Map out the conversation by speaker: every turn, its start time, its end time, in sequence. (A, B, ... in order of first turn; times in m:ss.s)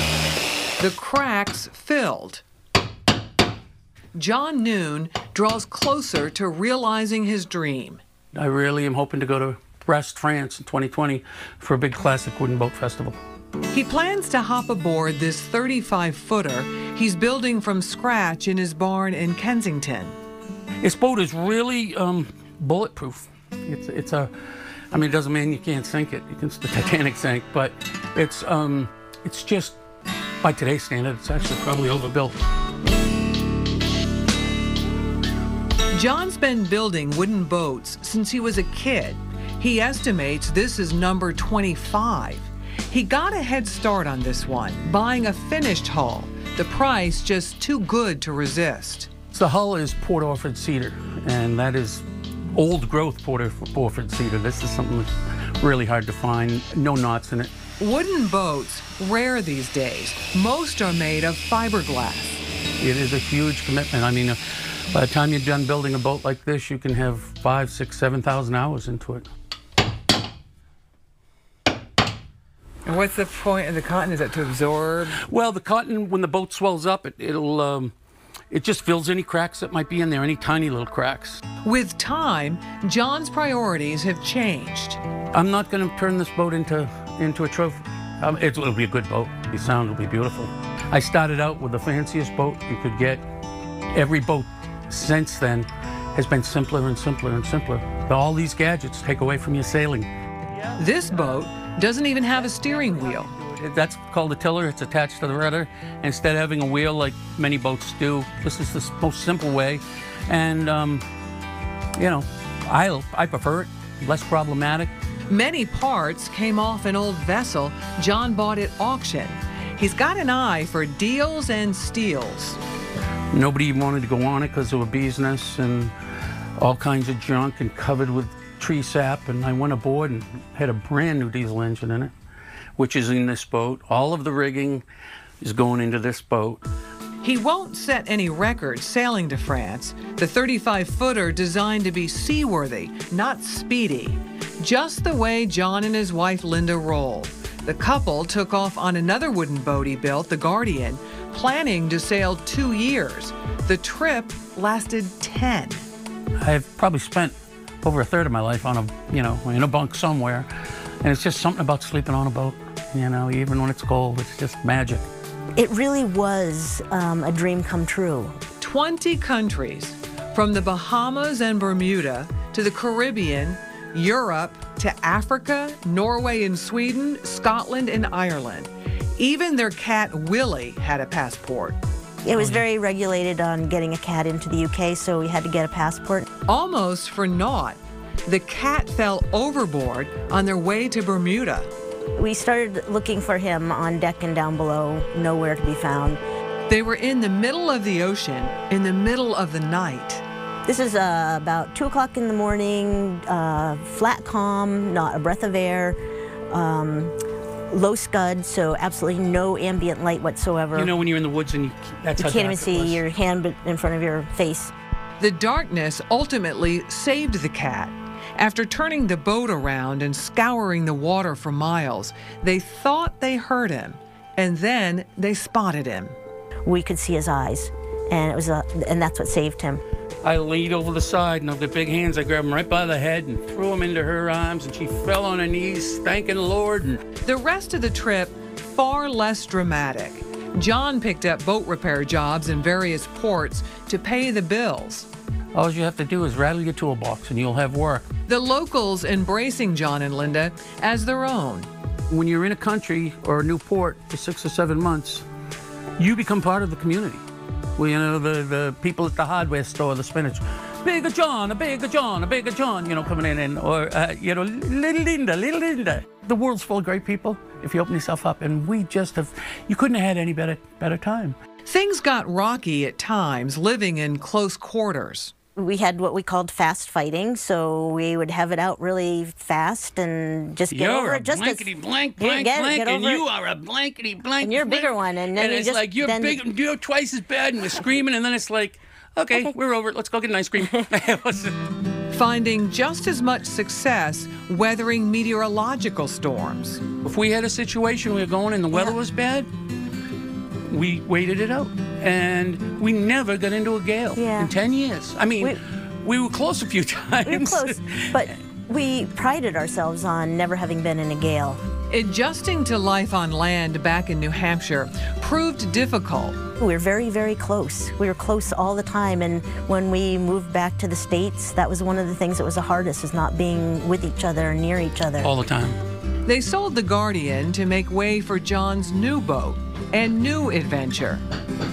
0:00.8-0:02.4 A
0:04.2-0:08.0 A
0:08.3-0:13.2 B
0:13.7-0:20.2 A
0:20.8-0:29.8 B
0:30.4-0:32.4 B
0:35.9-0:49.1 A
0:49.3-0:57.5 B
0:57.8-1:02.4 A
1:02.8-1:09.3 B
1:12.9-1:15.2 A
1:15.2-1:17.9 B
1:18.5-1:21.4 B
1:21.6-1:25.0 A
1:25.3-1:33.2 B
1:33.9-1:40.1 B
1:40.8-1:43.3 A
1:43.3-1:51.1 B
1:52.0-1:54.9 B
1:55.3-2:02.6 A
2:03.3-2:05.9 B
2:06.6-2:12.1 B
2:12.8-2:14.8 B
2:15.4-2:16.6 B
2:17.2-2:35.9 A
2:36.4-2:40.5 B
2:41.0-2:45.1 B
2:45.6-2:48.4 C
2:48.6-3:01.8 A
3:02.2-3:06.3 C
3:02.4-3:02.6 B
3:06.5-3:11.7 A
3:12.2-3:16.2 C
3:16.7-3:20.2 A
3:20.7-3:26.0 C
3:26.5-3:27.2 C
3:27.7-3:30.9 C
3:30.7-3:33.0 B
3:32.2-3:34.7 C
3:35.2-3:46.2 A
3:46.7-3:49.8 C
3:50.2-3:57.0 B
3:57.2-4:05.1 A
4:05.5-4:08.1 B
4:08.3-4:11.7 A
4:12.1-4:15.3 B
4:16.0-4:17.2 B
4:17.8-4:31.4 B
4:31.6-4:35.3 A
4:35.6-4:43.2 C
4:40.7-4:51.6 B
4:44.4-4:46.4 C
4:52.1-4:56.8 A
4:57.0-4:59.5 B
5:00.7-5:08.2 B
5:04.2-5:04.6 C
5:07.2-5:11.6 C
5:11.9-5:16.4 A
5:16.6-5:25.3 C
5:25.2-5:25.8 B
5:26.2-5:31.2 A